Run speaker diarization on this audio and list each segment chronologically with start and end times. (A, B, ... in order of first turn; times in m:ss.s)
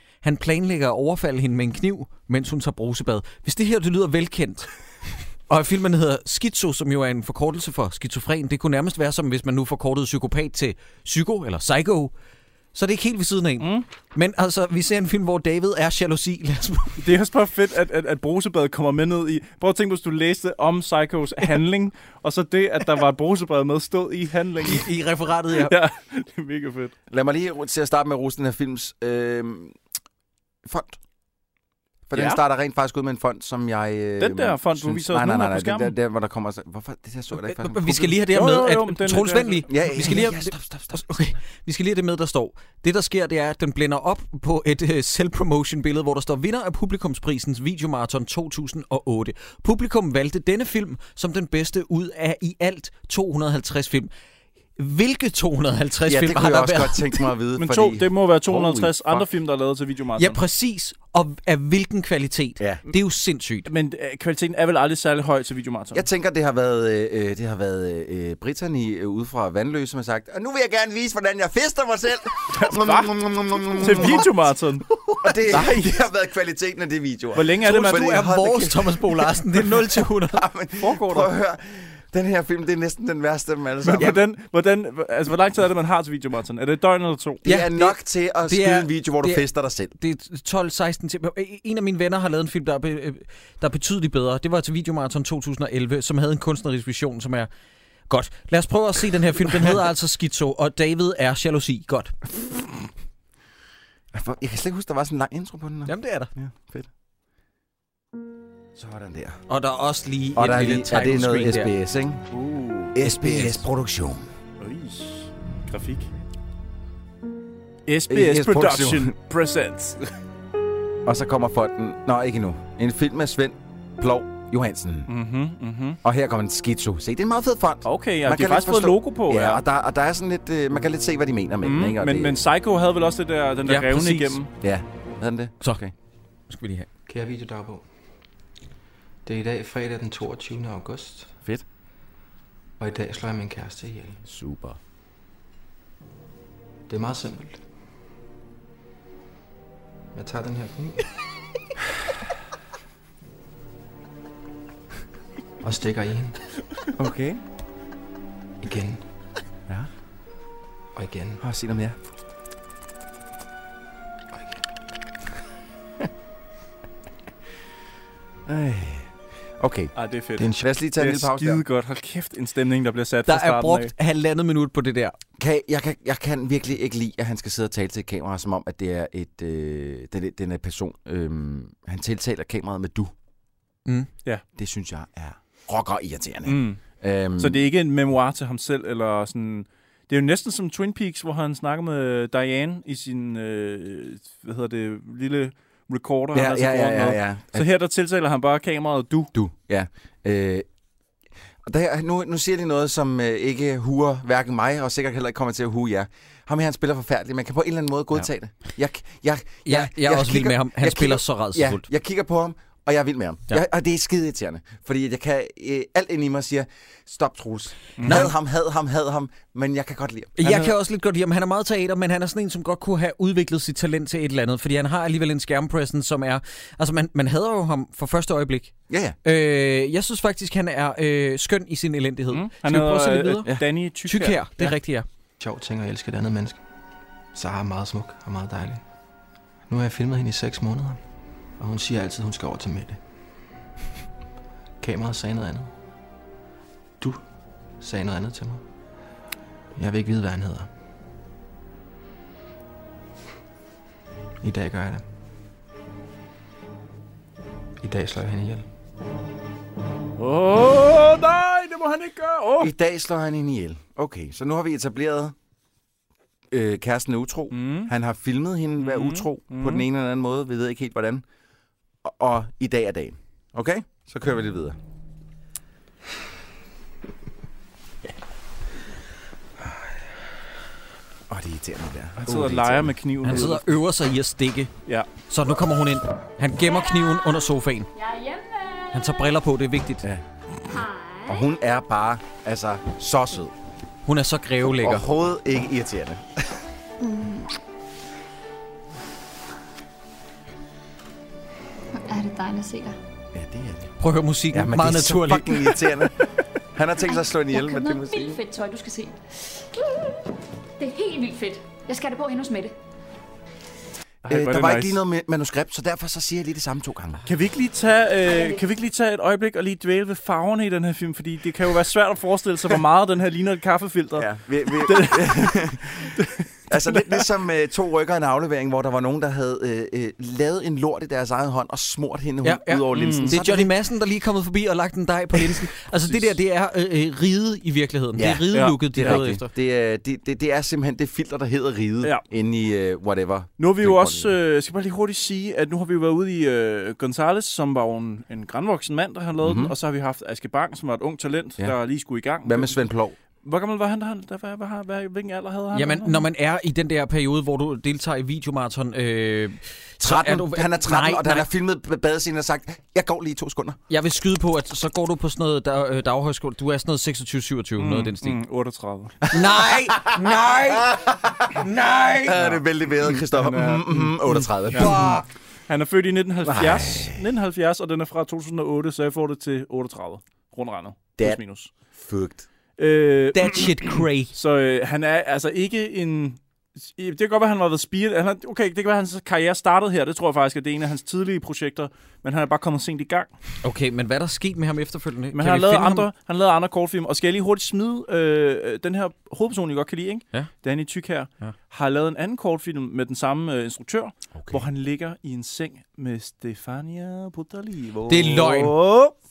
0:00.2-0:04.7 A
0:05.5-0:12.1 A
0:12.7-0:17.0 A
0:13.6-0:13.8 B
0:17.0-0:24.9 B
0:24.7-0:25.7 A
0:25.5-0:26.9 B
0:27.1-0:29.8 C
0:30.6-0:31.0 C
0:32.1-0:38.1 C
0:32.1-0:32.4 B
0:34.2-0:35.9 B
0:37.4-0:54.1 A
0:38.3-0:39.7 B
0:39.7-0:41.3 C
0:54.8-0:57.2 A
0:56.1-0:59.2 C
0:57.6-1:00.4 B
1:00.2-1:03.7 A
1:02.6-1:02.8 C
1:03.7-1:06.0 B
1:05.9-1:14.3 C
1:12.5-1:13.2 B
1:13.8-1:14.8 B
1:15.0-1:15.3 A
1:15.2-1:19.6 C
1:15.5-1:15.9 B
1:17.3-1:18.0 B
1:17.6-1:20.4 A
1:20.3-1:24.2 C
1:20.8-1:21.3 B
1:23.8-1:27.4 B
1:27.4-1:29.9 C
1:27.4-1:28.0 A
1:28.5-1:29.4 A
1:30.0-1:37.5 A
1:38.1-1:42.2 A
1:44.1-1:46.9 C
1:45.8-1:46.3 A
1:48.7-1:49.4 C
1:49.5-1:51.7 A
1:50.4-1:52.2 C
1:52.3-1:52.9 B
1:52.9-1:54.3 C
1:53.0-1:53.6 A
1:54.6-1:56.1 B
1:57.9-2:00.1 B
1:58.1-1:59.1 C
2:01.0-2:05.1 C
2:05.1-2:06.0 B
2:06.0-2:12.4 C
2:07.8-2:09.6 B
2:11.6-2:14.5 B
2:13.7-2:14.4 A
2:14.6-2:15.9 C
2:16.5-2:16.9 A
2:17.0-2:17.8 D
2:19.2-2:21.4 D
2:22.8-2:24.2 D
2:24.2-2:24.8 C
2:26.9-2:27.6 D
2:30.1-2:31.0 D
2:35.6-2:36.4 D
2:36.9-2:37.4 C
2:38.6-2:39.0 D
2:40.9-2:41.4 D
2:41.4-2:42.0 C
2:48.4-2:49.9 C
2:50.0-2:53.9 B
2:50.4-2:50.6 D
2:50.4-2:51.6 C
2:53.3-2:55.2 A
2:55.4-3:03.1 C
3:04.6-3:07.7 C
3:06.4-3:06.8 B
3:07.4-3:19.3 B
3:16.3-3:17.6 C
3:19.3-3:20.6 C
3:21.6-3:40.5 C
3:29.6-3:31.8 A
3:38.0-3:38.3 B
3:40.4-3:53.5 A
3:48.9-3:49.2 C
3:52.3-3:54.7 B
3:54.0-3:55.0 A
3:55.4-3:56.6 D
3:57.3-3:58.8 D
3:59.7-4:01.0 D
4:01.6-4:03.0 D
4:04.8-4:05.7 D
4:07.8-4:08.6 D
4:09.7-4:10.7 D
4:14.4-4:15.0 D
4:17.8-4:18.6 D
4:20.2-4:22.7 B
4:22.6-4:25.3 C
4:26.5-4:31.2 C
4:27.5-4:27.9 B
4:28.8-4:29.8 B
4:32.0-4:34.8 C
4:41.3-4:42.9 C
4:42.2-4:43.7 B
4:43.2-4:44.7 A
4:45.3-4:47.9 A
4:46.7-4:47.1 E
4:47.9-4:49.2 E
4:48.9-4:50.0 A
4:50.7-4:51.5 E
4:51.3-4:53.5 C
4:54.0-4:55.1 A
4:54.8-4:56.6 C
4:57.0-4:57.5 E
5:02.0-5:03.0 E
5:03.3-5:03.9 C
5:04.0-5:05.7 A
5:04.5-5:06.1 C
5:06.7-5:08.4 C
5:07.0-5:10.2 E
5:10.8-5:12.7 E
5:14.2-5:15.0 B
5:14.3-5:17.2 C
5:17.2-5:27.2 B
5:18.3-5:18.6 E
5:24.2-5:26.1 C
5:26.7-5:33.7 C
5:32.4-5:39.5 A
5:32.9-5:33.3 B
5:38.2-5:44.3 C
5:38.5-5:39.3 B
5:43.6-5:52.8 B
5:49.4-5:49.7 C
5:52.4-5:53.1 C
5:53.4-5:56.3 B
5:55.7-6:01.5 A
6:00.0-6:03.8 C
6:03.9-6:08.4 A
6:07.8-6:09.2 B
6:09.3-6:10.9 A
6:09.3-6:11.6 C
6:11.5-6:12.4 A
6:12.2-6:15.1 C
6:13.2-6:14.9 B
6:14.7-6:15.2 A
6:15.7-6:21.7 B
6:16.4-6:17.2 C
6:21.9-6:22.4 C
6:22.8-6:33.3 B
6:23.3-6:24.3 A
6:33.6-6:36.1 A
6:35.3-6:49.1 B
6:44.4-6:44.6 C
6:48.1-6:48.7 A